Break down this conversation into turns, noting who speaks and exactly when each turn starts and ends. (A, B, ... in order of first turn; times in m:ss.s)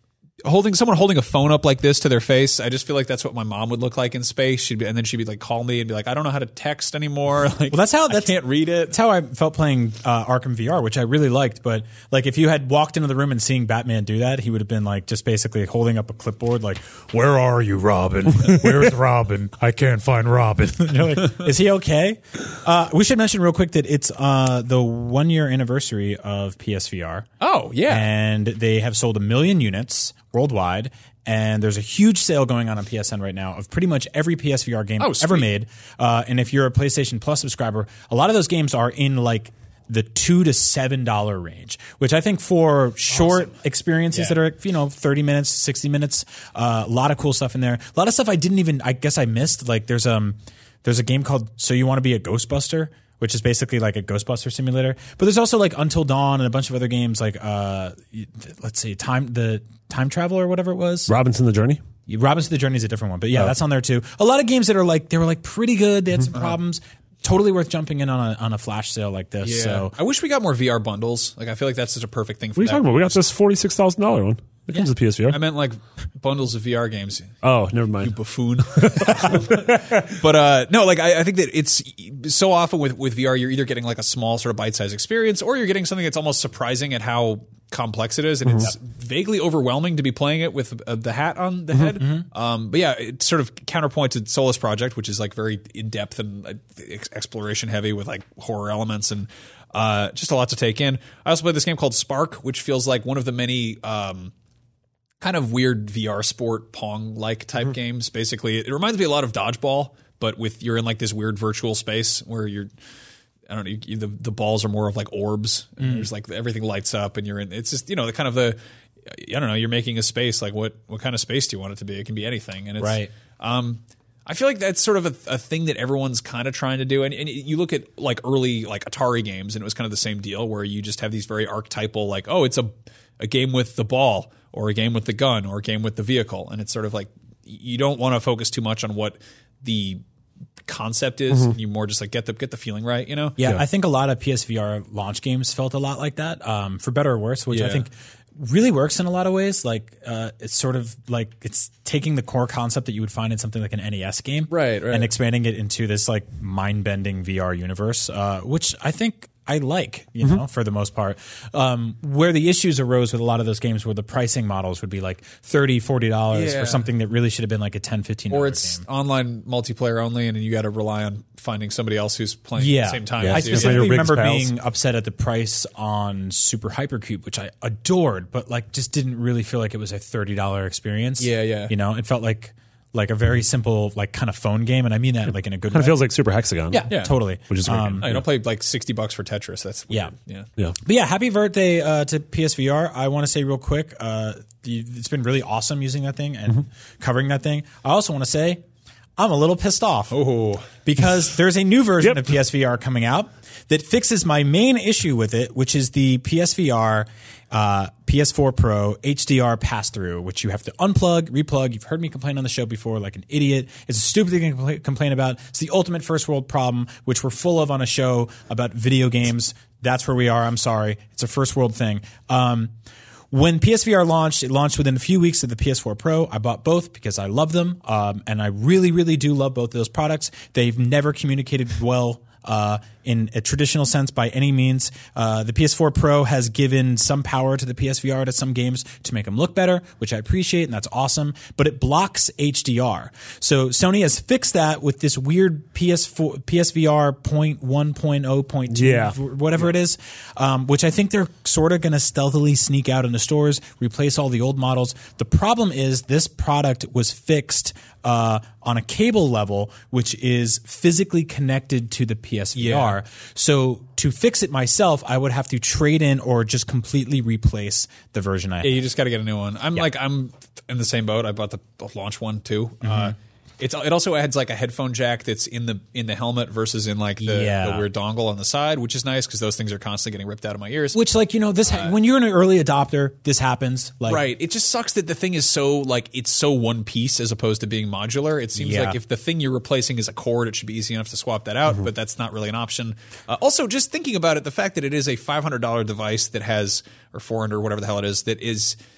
0:00.4-0:08.9 A
0:07.7-0:27.3 B
0:27.4-0:28.0 A
0:27.9-1:01.1 B
0:35.0-0:35.5 A
0:43.1-0:43.5 A
0:44.1-0:44.4 A
1:01.1-1:01.8 C
1:02.1-1:09.9 B
1:09.4-1:13.2 A
1:12.6-1:15.4 C
1:15.3-1:17.4 A
1:17.4-1:18.1 C
1:18.0-1:44.3 A
1:18.7-1:20.0 C
1:32.0-1:32.2 B
1:45.2-1:52.7 A
1:53.5-1:58.6 A
1:55.8-1:56.1 B
1:59.1-2:20.0 A
2:02.8-2:03.1 B
2:20.7-2:23.4 A
2:23.4-2:48.8 B
2:27.5-2:27.8 A
2:34.5-2:35.1 A
2:46.3-2:46.8 A
2:48.3-2:54.2 A
2:52.6-3:06.0 B
2:53.2-2:54.5 C
3:01.2-3:01.7 A
3:05.3-3:08.2 C
3:06.7-3:08.1 B
3:06.7-3:07.1 A
3:08.0-3:10.5 A
3:10.8-3:18.6 B
3:19.2-3:20.2 B
3:20.1-3:20.7 A
3:20.7-3:42.7 B
3:22.0-3:22.3 C
3:43.3-4:28.8 B
4:08.7-4:09.2 C
4:22.6-4:23.0 A
4:28.6-4:41.0 A
4:32.8-4:33.1 B
4:37.2-4:37.8 B
4:40.9-4:44.2 B
4:41.6-4:41.9 A
4:44.1-4:58.8 A
4:48.6-4:49.0 B